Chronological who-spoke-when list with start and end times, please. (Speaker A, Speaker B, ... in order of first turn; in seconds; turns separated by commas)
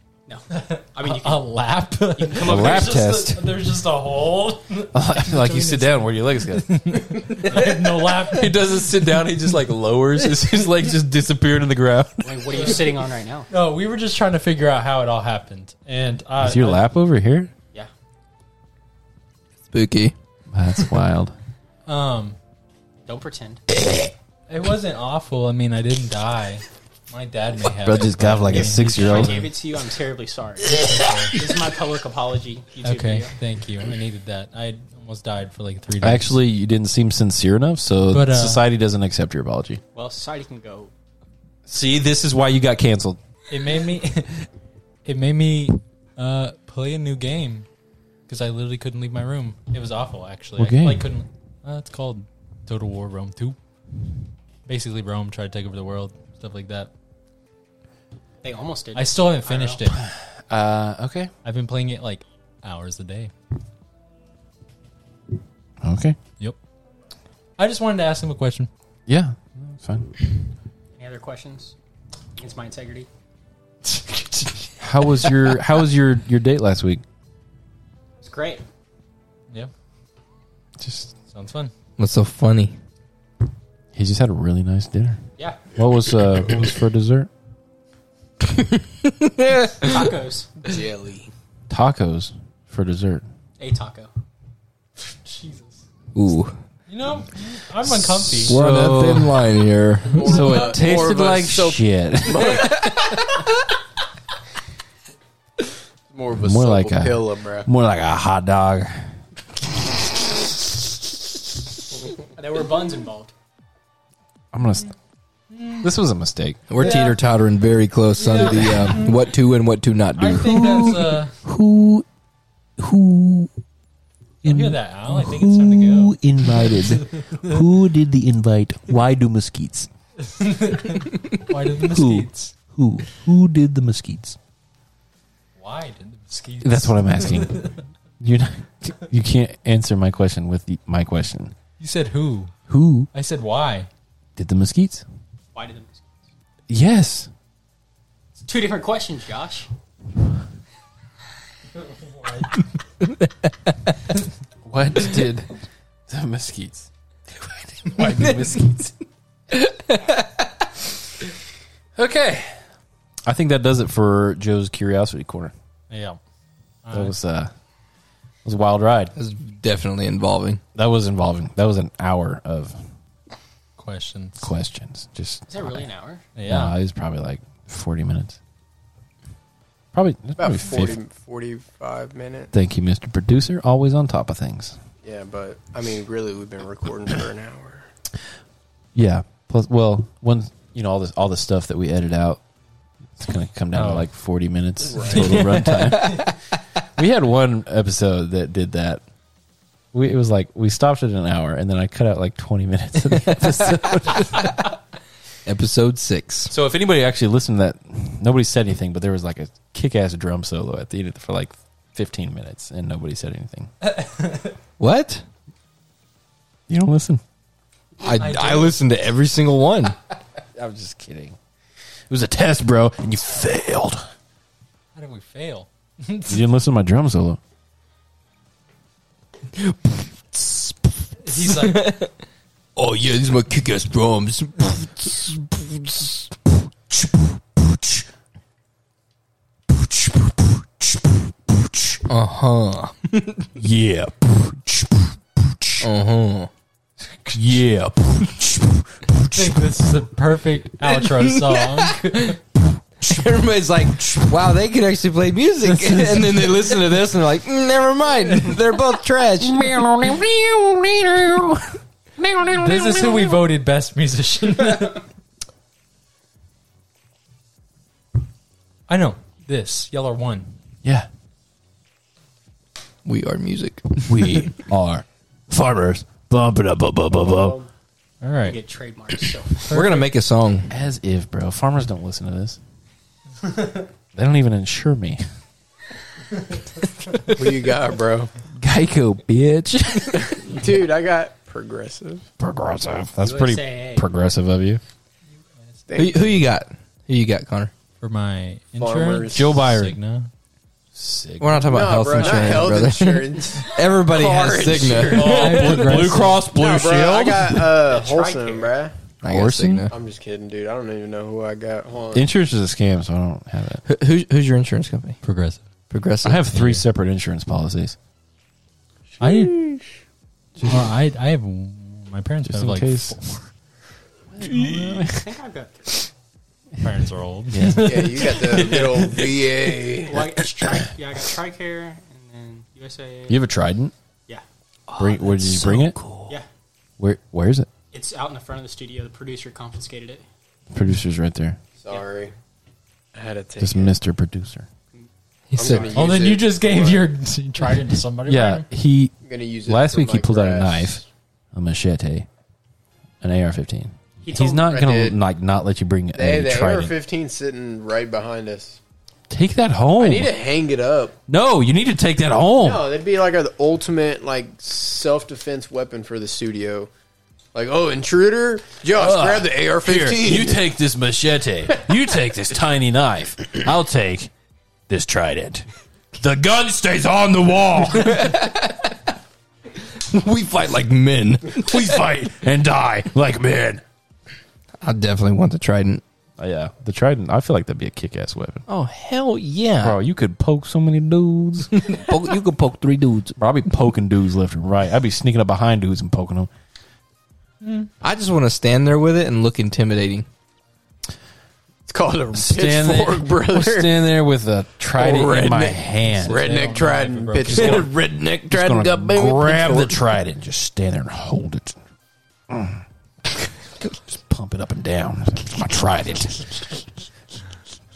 Speaker A: 0.3-1.5, Speaker B: 0.5-8.5, Speaker A: 2.1-3.0, Speaker C: 2.4-3.4, Speaker C: 4.9-7.6, Speaker C: 8.2-12.6, Speaker A: 12.2-13.5, Speaker B: 12.5-12.8, Speaker B: 13.5-16.8, Speaker C: 16.4-17.5, Speaker D: 19.7-20.1, Speaker C: 20.5-21.3, Speaker B: 21.9-22.4, Speaker A: 23.1-23.6, Speaker B: 24.5-29.5, Speaker C: 27.8-29.5, Speaker A: 28.7-33.3, Speaker B: 30.7-31.4, Speaker B: 32.8-36.4, Speaker C: 36.0-39.8, Speaker B: 38.1-38.6, Speaker A: 39.9-40.9, Speaker C: 41.6-43.2, Speaker B: 43.5-44.5, Speaker B: 45.0-47.7, Speaker B: 48.3-53.6, Speaker C: 50.6-51.1, Speaker B: 54.7-56.9, Speaker A: 58.4-59.8, Speaker B: 58.9-60.0, Speaker C: 59.9-61.3, Speaker B: 61.4-63.3, Speaker C: 65.8-66.2, Speaker B: 67.6-68.7, Speaker C: 69.1-70.1, Speaker A: 71.0-71.7, Speaker A: 72.4-73.1, Speaker C: 74.8-77.0, Speaker A: 78.2-78.6, Speaker C: 80.8-81.1, Speaker B: 81.3-81.7, Speaker D: 82.0-82.7, Speaker C: 83.9-85.2, Speaker A: 85.4-85.8, Speaker C: 85.7-87.3, Speaker D: 88.4-90.1, Speaker A: 89.8-90.5, Speaker E: 90.6-91.3, Speaker C: 91.7-93.2, Speaker A: 93.6-94.1, Speaker B: 95.3-95.6, Speaker D: 96.1-96.5, Speaker B: 96.9-98.5, Speaker C: 97.9-99.5, Speaker D: 98.5-100.5, Speaker E: 100.1-103.2, Speaker C: 100.2-102.9, Speaker E: 106.1-107.7, Speaker C: 106.3-109.1, Speaker A: 112.0-113.3, Speaker C: 114.5-114.9, Speaker B: 115.6-115.8, Speaker C: 115.8-116.6, Speaker D: 116.7-120.9, Speaker B: 116.8-117.2, Speaker B: 118.2-119.3, Speaker B: 120.2-121.3, Speaker C: 120.5-122.0, Speaker C: 122.8-123.5, Speaker C: 124.4-129.9, Speaker B: 124.4-126.2, Speaker B: 126.9-127.5, Speaker B: 130.2-132.5, Speaker C: 131.8-134.4, Speaker B: 135.6-137.8, Speaker C: 136.6-141.5, Speaker B: 141.8-142.5, Speaker C: 142.7-143.1, Speaker B: 143.1-143.9, Speaker C: 144.4-145.0, Speaker A: 145.5-146.1, Speaker C: 146.7-147.3, Speaker A: 148.4-149.7, Speaker D: 153.0-153.7, Speaker C: 154.6-155.5, Speaker C: 156.1-158.9, Speaker D: 158.0-158.5, Speaker D: 159.5-160.4, Speaker C: 161.9-162.6, Speaker C: 163.2-165.5, Speaker B: 165.9-166.2, Speaker B: 166.8-167.1, Speaker C: 166.9-167.5, Speaker C: 168.4-169.1, Speaker D: 169.2-170.6, Speaker C: 170.7-172.8, Speaker B: 173.8-174.5, Speaker C: 174.4-175.8, Speaker A: 175.5-176.3, Speaker B: 176.4-176.7, Speaker C: 176.4-178.4, Speaker C: 179.9-181.0, Speaker E: 180.4-182.5, Speaker C: 182.5-184.8, Speaker E: 185.0-187.9, Speaker C: 188.9-192.4, Speaker C: 193.2-196.3, Speaker B: 193.7-194.1, Speaker E: 194.9-195.4, Speaker D: 195.1-196.4, Speaker B: 195.1-195.4, Speaker B: 195.9-196.2, Speaker C: 197.0-199.0, Speaker C: 199.9-204.6, Speaker D: 205.4-206.5, Speaker C: 206.5-213.7, Speaker B: 213.8-214.5, Speaker D: 214.8-215.2, Speaker C: 216.7-217.2, Speaker D: 218.0-219.9, Speaker B: 218.1-218.8, Speaker C: 220.6-221.4, Speaker C: 222.1-224.0, Speaker B: 224.9-226.4, Speaker C: 226.3-227.4, Speaker D: 229.6-230.8, Speaker B: 231.2-231.9, Speaker D: 231.3-232.1, Speaker D: 232.8-236.3, Speaker C: 236.9-238.0, Speaker C: 239.7-242.0, Speaker D: 242.1-243.5, Speaker C: 243.6-245.8, Speaker D: 245.8-246.5, Speaker C: 247.2-249.6, Speaker B: 249.3-252.4, Speaker D: 250.8-252.4, Speaker D: 253.0-259.9, Speaker C: 255.8-256.5, Speaker C: 259.4-263.4, Speaker B: 262.5-265.0, Speaker B: 268.9-270.5, Speaker D: 273.0-274.5, Speaker C: 274.1-277.6, Speaker E: 277.1-277.7, Speaker B: 278.2-278.6, Speaker A: 278.4-279.8, Speaker B: 279.7-280.1, Speaker D: 279.7-280.7, Speaker C: 280.7-282.6, Speaker C: 284.1-285.2, Speaker E: 287.3-288.3, Speaker C: 288.6-290.5, Speaker E: 290.3-292.2, Speaker C: 292.4-294.8, Speaker A: 293.2-294.1, Speaker E: 295.9-296.4, Speaker D: 295.9-297.7, Speaker B: 298.0-300.3, Speaker E: 298.8-299.5, Speaker C: 299.3-300.0, Speaker C: 300.9-302.7, Speaker D: 301.4-306.0, Speaker E: 301.7-308.9, Speaker C: 305.0-307.7, Speaker B: 305.1-306.4, Speaker A: 307.8-308.8, Speaker C: 309.2-309.9, Speaker D: 309.2-309.9, Speaker E: 309.9-312.3, Speaker C: 312.1-313.8, Speaker D: 313.9-315.2, Speaker B: 315.2-315.6, Speaker D: 315.9-316.8, Speaker C: 316.2-317.9, Speaker B: 319.2-319.6, Speaker B: 320.6-323.4, Speaker C: 322.4-323.2, Speaker C: 324.3-325.3, Speaker A: 325.1-326.1, Speaker B: 326.8-328.7, Speaker C: 327.5-329.6, Speaker E: 327.7-330.2, Speaker A: 330.0-333.4, Speaker C: 330.1-330.9, Speaker C: 333.3-333.9, Speaker D: 334.9-336.3, Speaker C: 335.0-336.0, Speaker C: 337.0-337.7, Speaker A: 337.9-340.2, Speaker C: 340.7-341.6, Speaker E: 341.8-342.3, Speaker E: 343.1-343.9, Speaker C: 343.6-344.7, Speaker D: 345.5-345.9, Speaker E: 345.6-347.1, Speaker A: 345.6-346.0, Speaker B: 345.9-348.7, Speaker C: 348.2-351.0, Speaker E: 349.2-351.0, Speaker C: 351.5-352.3, Speaker C: 353.2-356.9, Speaker A: 354.2-354.7, Speaker E: 354.6-355.2, Speaker E: 356.1-358.8, Speaker C: 359.3-360.3, Speaker E: 360.0-361.1, Speaker C: 361.3-362.9, Speaker E: 362.6-366.9, Speaker E: 367.5-370.6, Speaker C: 368.9-374.3, Speaker C: 374.9-375.6, Speaker C: 376.2-378.4, Speaker D: 378.0-378.9, Speaker D: 379.8-381.9, Speaker C: 381.5-383.8, Speaker D: 384.8-386.0, Speaker C: 386.4-388.6, Speaker D: 388.7-390.0, Speaker C: 389.8-392.0, Speaker D: 391.7-393.4, Speaker C: 393.4-396.5, Speaker B: 397.6-397.9, Speaker D: 398.0-400.2, Speaker E: 401.9-403.9, Speaker C: 402.3-406.5, Speaker E: 404.9-407.9, Speaker B: 406.2-407.9, Speaker C: 407.5-407.9, Speaker D: 407.5-409.9, Speaker C: 408.5-411.8, Speaker C: 412.5-412.8, Speaker C: 414.1-416.7